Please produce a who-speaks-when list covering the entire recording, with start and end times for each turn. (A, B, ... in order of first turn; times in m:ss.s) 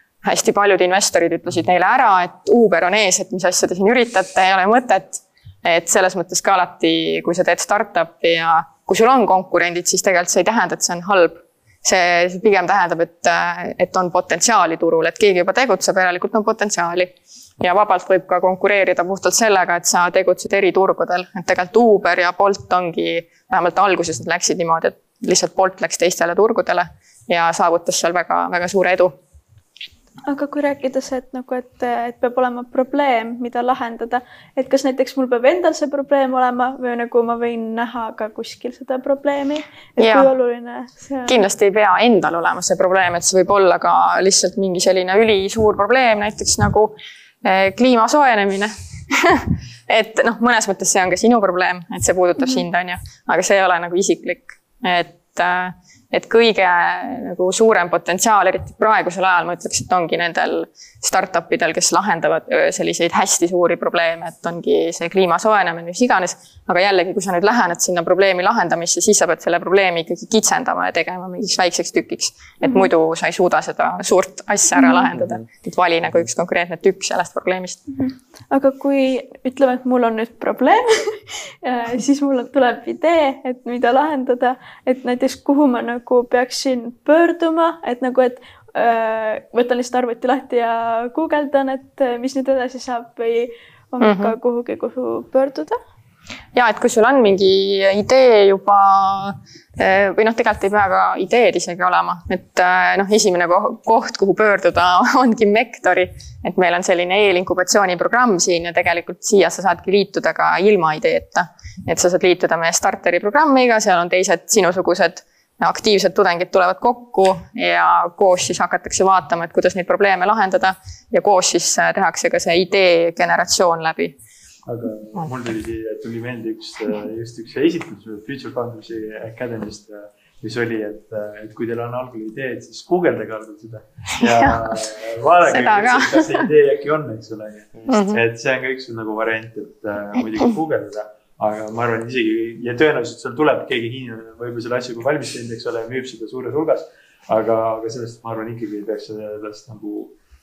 0:00.2-0:29.2 A
0:30.3-0:41.4 B
0:40.0-0:40.3 A
0:41.3-1:17.9 A
1:14.8-1:15.1 B
1:18.0-1:35.8 B
1:34.0-1:34.3 A
1:36.5-2:04.2 A
2:04.7-2:30.1 C
2:14.2-2:14.6 A
2:15.5-2:16.5 A
2:17.9-2:18.2 A